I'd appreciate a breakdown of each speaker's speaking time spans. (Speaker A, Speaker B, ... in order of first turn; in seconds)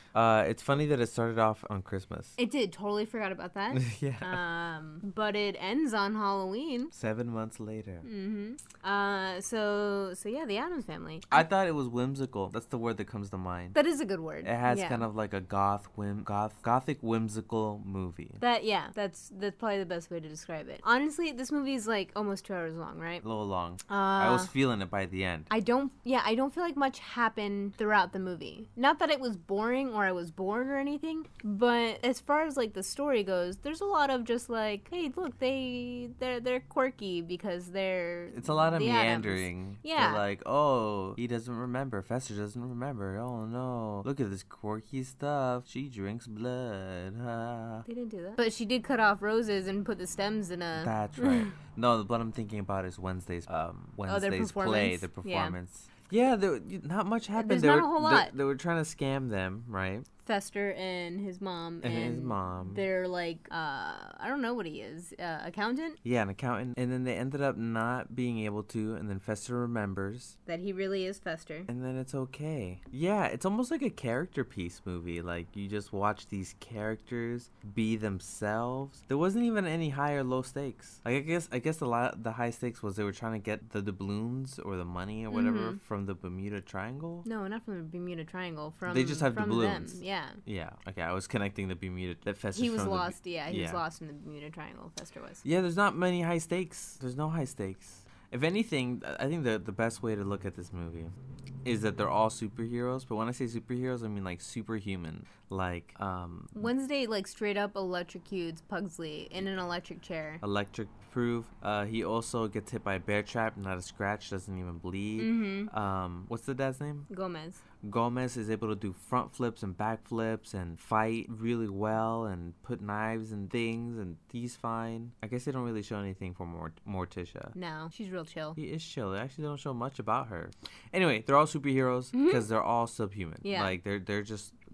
Speaker A: 0.1-2.4, 3.7-4.4, 6.9-8.1, 11.3-13.8, 14.4-18.4, 23.2-25.5, 38.3-47.9, 50.8-60.1, 61.8-62.9, 66.0-70.4, 71.7-87.3, 88.9-93.8, 95.4-101.1, 101.7-106.5, 110.4-117.1, 117.8-127.5, 128.6-134.6
Speaker B: 2.4-6.9, 8.0-11.4, 13.7-15.1, 18.4-23.2, 23.9-24.5, 25.5-40.2, 47.9-51.5, 54.1-55.5, 57.4-58.3, 60.2-66.0, 70.5-71.7, 85.3-85.8, 87.2-90.4, 92.5-95.4, 106.5-110.4, 115.2-115.7, 117.1-117.6, 127.5-128.6, 132.1-132.4, 133.4-133.8